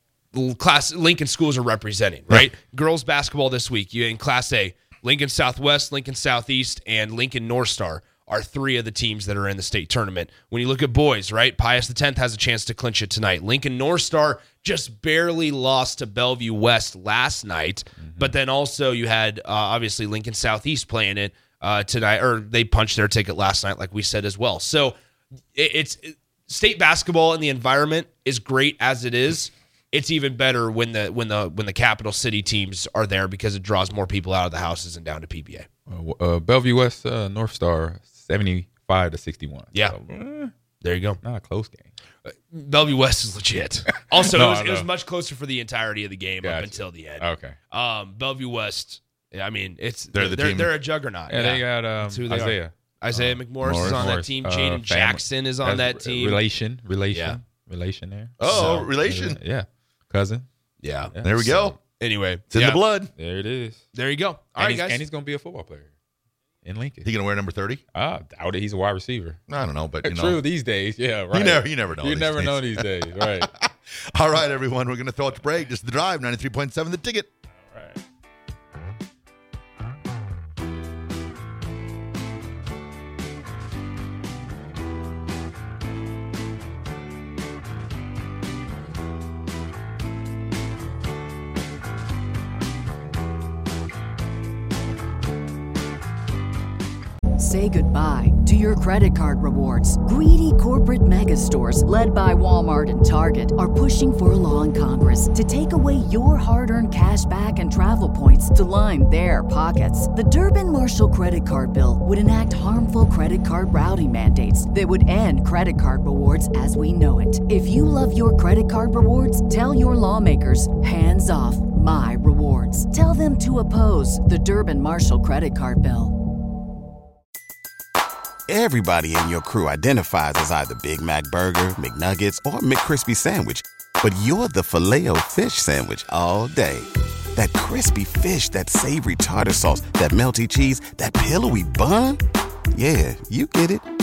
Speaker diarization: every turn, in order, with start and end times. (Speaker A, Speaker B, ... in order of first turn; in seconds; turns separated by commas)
Speaker A: 0.3-25.0, Speaker B: 18.0-18.3, Speaker A: 25.5-35.7, Speaker B: 35.9-40.5, Speaker A: 40.8-41.2, Speaker B: 41.2-41.9, Speaker A: 42.2-56.4, Speaker B: 43.9-44.9, Speaker B: 46.4-47.6, Speaker C: 50.1-50.7, Speaker B: 51.3-60.5, Speaker C: 53.6-54.1, Speaker A: 57.1-57.4, Speaker C: 58.4-59.4, Speaker A: 58.4-58.9, Speaker A: 60.8-61.1, Speaker B: 61.1-61.8, Speaker C: 61.2-61.8, Speaker A: 62.0-62.8, Speaker C: 62.5-63.1, Speaker B: 63.2-63.8, Speaker A: 63.9-65.0, Speaker B: 64.6-65.9, Speaker B: 66.6-67.1, Speaker C: 67.0-67.8, Speaker B: 67.9-69.4, Speaker C: 69.5-70.5, Speaker B: 70.0-73.5, Speaker C: 71.3-77.3, Speaker B: 77.7-78.0, Speaker D: 97.4-126.1, Speaker E: 128.5-142.2, Speaker E: 142.7-143.9